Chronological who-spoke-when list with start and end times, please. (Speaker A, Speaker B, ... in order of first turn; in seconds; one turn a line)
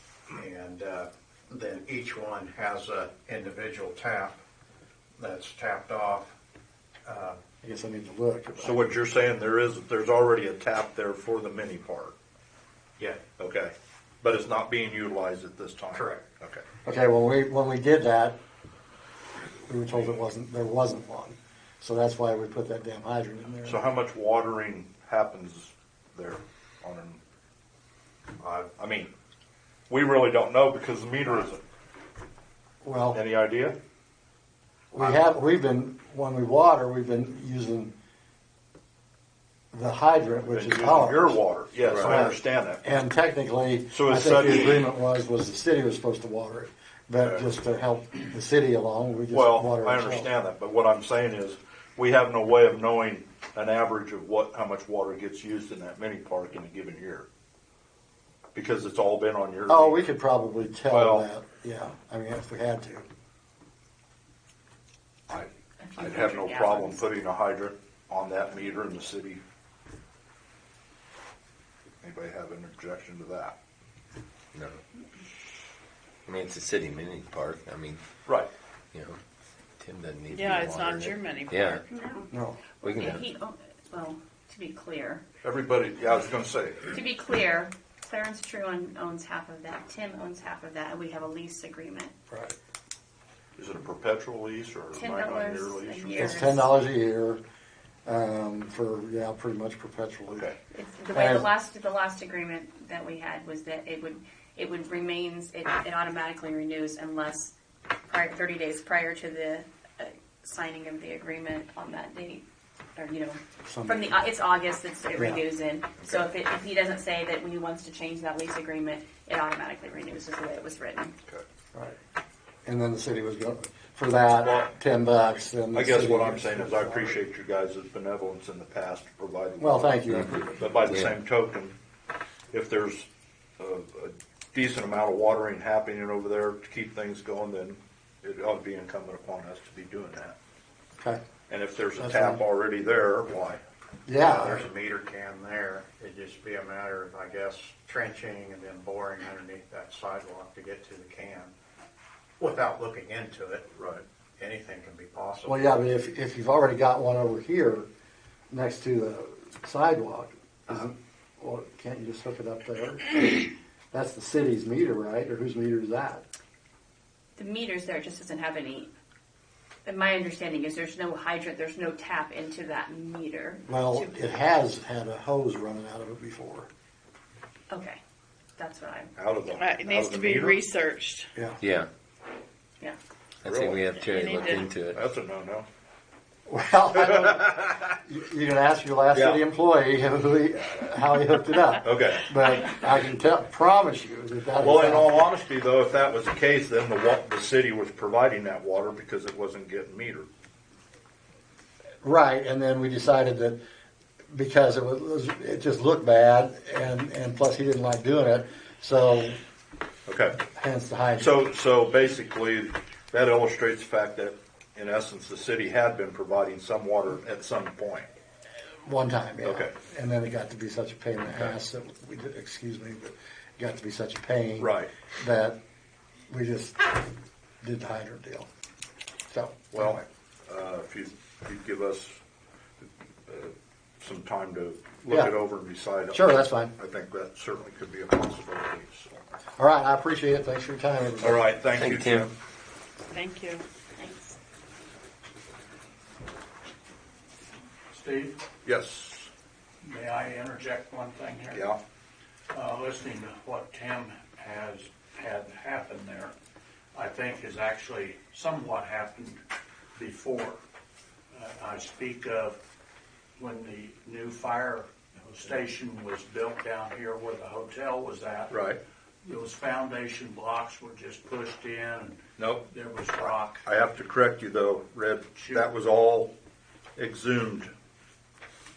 Speaker A: 0.3-4.4
Speaker A: 5.2-6.3
Speaker A: 7.0-7.4
Speaker B: 7.6-8.9
Speaker C: 8.6-12.1
Speaker C: 13.4-16.6
Speaker A: 15.9-16.2
Speaker B: 16.8-18.4
Speaker B: 19.7-23.8
Speaker C: 23.6-27.2
Speaker A: 28.4-28.7
Speaker C: 28.8-29.1
Speaker C: 29.9-31.6
Speaker B: 32.8-33.2
Speaker C: 33.1-33.8
Speaker B: 34.9-37.9
Speaker B: 39.7-50.3
Speaker C: 40.5-42.8
Speaker C: 43.9-44.8
Speaker C: 49.3-57.3
Speaker C: 58.5-60.0
Speaker B: 59.7-63.0
Speaker C: 60.9-61.3
Speaker C: 65.3-69.4
Speaker D: 65.8-67.0
Speaker C: 72.0-73.5
Speaker E: 74.5-74.8
Speaker E: 76.2-78.0
Speaker C: 78.2-78.5
Speaker E: 78.9-79.2
Speaker E: 79.8-81.8
Speaker F: 80.3-81.8
Speaker D: 81.9-85.2
Speaker B: 82.3-82.6
Speaker E: 82.8-83.3
Speaker C: 85.4-86.9
Speaker D: 86.8-92.1
Speaker B: 92.3-92.5
Speaker C: 93.6-96.5
Speaker D: 94.9-96.7
Speaker B: 96.2-97.4
Speaker B: 98.0-100.5
Speaker C: 100.3-100.6
Speaker D: 100.7-107.5
Speaker B: 101.1-101.5
Speaker D: 108.1-112.4
Speaker D: 113.0-121.1
Speaker B: 113.7-114.2
Speaker B: 115.2-115.4
Speaker B: 122.6-127.2
Speaker C: 124.4-124.7
Speaker C: 125.7-130.0
Speaker B: 129.6-130.7
Speaker E: 130.1-131.2
Speaker C: 130.6-131.7
Speaker C: 132.5-133.1
Speaker C: 133.6-140.3
Speaker C: 141.5-143.6
Speaker B: 141.9-142.4
Speaker B: 144.1-144.7
Speaker A: 144.2-151.5
Speaker A: 152.4-153.7
Speaker C: 153.8-154.0
Speaker A: 154.4-155.7
Speaker B: 155.4-157.9
Speaker B: 158.5-166.2
Speaker D: 167.4-168.9
Speaker D: 169.8-174.3
Speaker B: 173.7-176.7
Speaker D: 177.7-178.0
Speaker D: 178.6-179.1
Speaker C: 179.2-180.6
Speaker F: 179.5-181.3
Speaker E: 181.6-181.9
Speaker E: 183.4-185.0
Speaker C: 183.4-183.9
Speaker F: 184.0-184.6
Speaker C: 184.9-185.7
Speaker B: 186.5-195.2
Speaker C: 187.0-187.8
Speaker C: 189.1-189.4
Speaker C: 191.8-192.3
Speaker C: 194.6-200.3
Speaker B: 202.0-203.6
Speaker B: 204.3-209.4
Speaker C: 210.1-210.4
Speaker B: 210.5-211.4
Speaker C: 211.2-218.1
Speaker B: 218.8-225.6
Speaker C: 219.4-219.7
Speaker C: 221.3-221.5
Speaker C: 224.6-224.9
Speaker B: 226.3-226.9
Speaker B: 227.6-228.5
Speaker B: 229.3-230.0
Speaker C: 229.7-232.2
Speaker C: 232.8-239.2
Speaker B: 236.1-236.7
Speaker B: 239.6-241.5
Speaker C: 241.2-242.3
Speaker E: 241.8-242.3
Speaker F: 243.1-243.7
Speaker D: 244.0-244.3
Speaker G: 247.9-248.4
Speaker C: 248.6-249.3
Speaker G: 249.8-251.7
Speaker C: 251.5-251.8
Speaker G: 252.5-256.3
Speaker G: 256.9-259.4
Speaker G: 259.9-260.6
Speaker G: 261.3-262.6
Speaker G: 263.4-268.6
Speaker C: 268.5-268.8
Speaker G: 269.2-273.6
Speaker C: 272.4-272.6
Speaker C: 273.2-276.3
Speaker G: 275.4-275.7
Speaker C: 277.0-277.7